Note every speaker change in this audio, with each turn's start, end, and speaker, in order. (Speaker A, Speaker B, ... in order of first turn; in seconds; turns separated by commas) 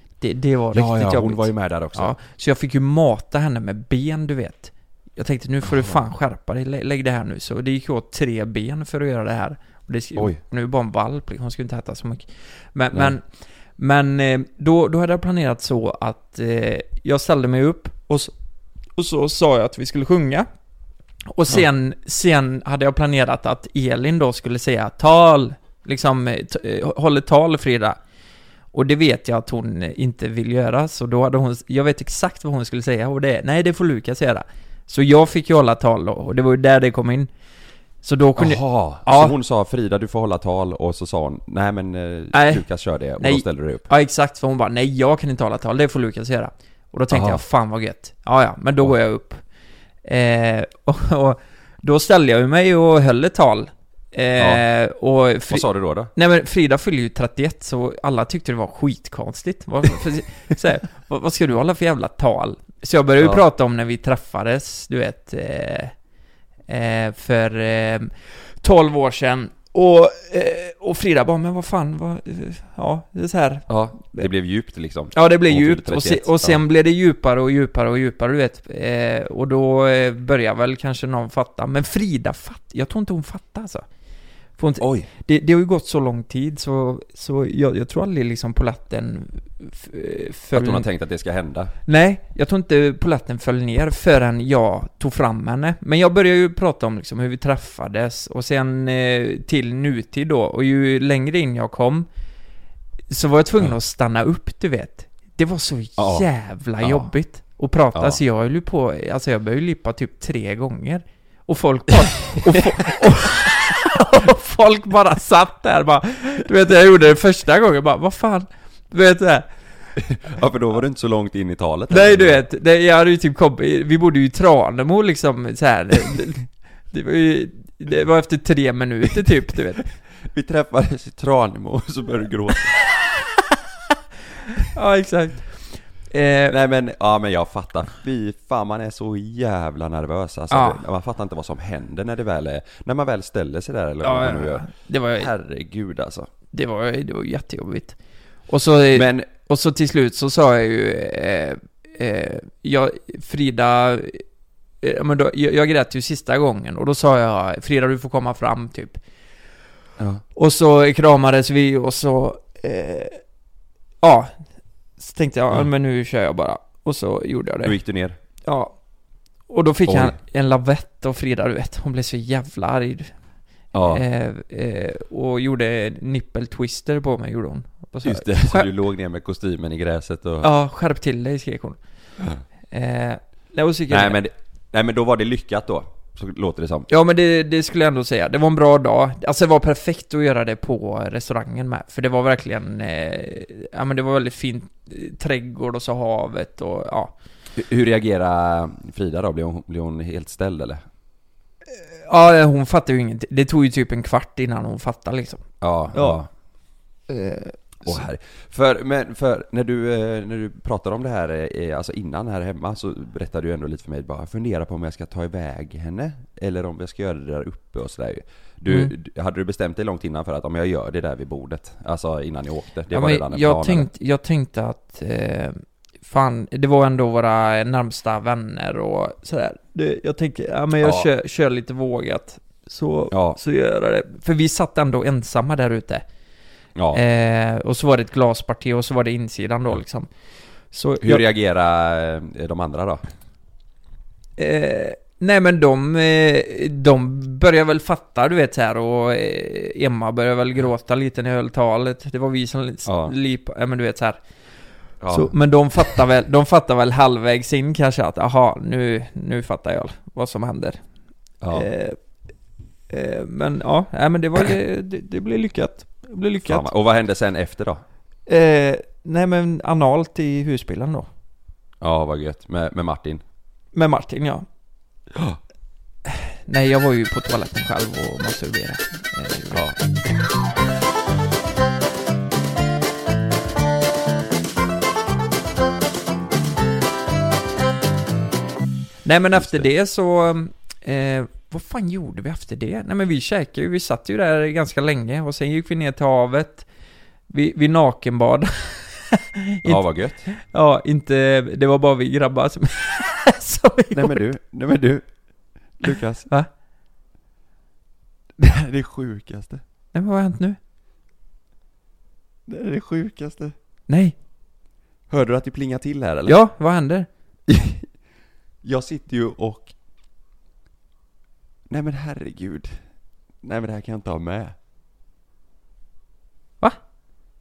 Speaker A: 0.2-18.3, Speaker B: 0.7-2.1, Speaker A: 18.9-20.5, Speaker A: 21.3-28.0, Speaker A: 28.7-37.3, Speaker A: 38.0-39.3, Speaker B: 38.4-43.9, Speaker A: 42.3-42.6, Speaker A: 43.2-49.4, Speaker B: 47.1-47.4, Speaker A: 50.0-65.9, Speaker B: 54.4-54.6, Speaker B: 55.5-56.1, Speaker A: 66.7-74.3, Speaker B: 73.7-76.6, Speaker A: 75.1-83.8, Speaker A: 84.6-90.8, Speaker B: 84.8-85.1, Speaker B: 90.5-91.7, Speaker A: 91.8-102.1, Speaker A: 103.1-119.5, Speaker B: 106.0-106.3, Speaker B: 106.8-107.1, Speaker B: 107.9-108.2, Speaker B: 112.5-112.7, Speaker B: 120.0-122.4, Speaker A: 121.9-129.9, Speaker B: 130.2-132.8, Speaker A: 134.6-136.6, Speaker B: 136.5-146.3, Speaker A: 140.5-140.8, Speaker A: 144.0-145.3, Speaker A: 146.5-148.0, Speaker A: 148.5-154.2, Speaker B: 148.9-149.3, Speaker A: 154.8-159.0, Speaker A: 160.3-163.2, Speaker A: 164.0-164.3, Speaker A: 165.0-167.7, Speaker B: 167.6-168.2, Speaker A: 168.4-168.8, Speaker A: 169.5-173.1, Speaker B: 169.9-170.2, Speaker B: 173.7-174.0, Speaker A: 173.9-178.7, Speaker B: 178.0-180.5, Speaker A: 180.4-181.8, Speaker A: 182.7-184.2, Speaker B: 183.9-186.9, Speaker A: 186.9-197.1, Speaker B: 197.5-200.8, Speaker A: 201.7-206.2, Speaker B: 205.6-206.3, Speaker A: 207.1-208.0, Speaker B: 207.8-223.9, Speaker A: 218.7-218.9, Speaker A: 222.9-236.0, Speaker B: 230.8-231.1, Speaker B: 233.1-233.4, Speaker B: 236.7-237.0, Speaker A: 236.9-240.1, Speaker A: 240.7-241.2, Speaker B: 241.0-243.0, Speaker A: 244.4-254.2, Speaker B: 252.8-253.1, Speaker B: 255.0-255.3, Speaker A: 255.1-260.8, Speaker B: 261.4-261.7, Speaker A: 261.5-262.0, Speaker A: 262.9-266.7, Speaker B: 266.4-267.8, Speaker A: 268.3-271.1, Speaker B: 271.8-273.2, Speaker A: 273.7-274.4, Speaker B: 275.1-275.4, Speaker A: 276.0-279.7, Speaker B: 279.5-279.8, Speaker A: 289.0-296.6, Speaker B: 289.3-289.7, Speaker A: 297.3-304.2, Speaker B: 299.6-300.3, Speaker B: 303.9-305.1, Speaker B: 305.8-306.3, Speaker B: 308.4-309.6, Speaker A: 309.9-310.6, Speaker B: 312.5-313.6, Speaker A: 313.9-314.1, Speaker B: 315.1-316.4, Speaker A: 316.2-317.1, Speaker B: 317.5-317.9, Speaker B: 318.6-319.7, Speaker B: 321.7-322.8, Speaker B: 323.4-324.5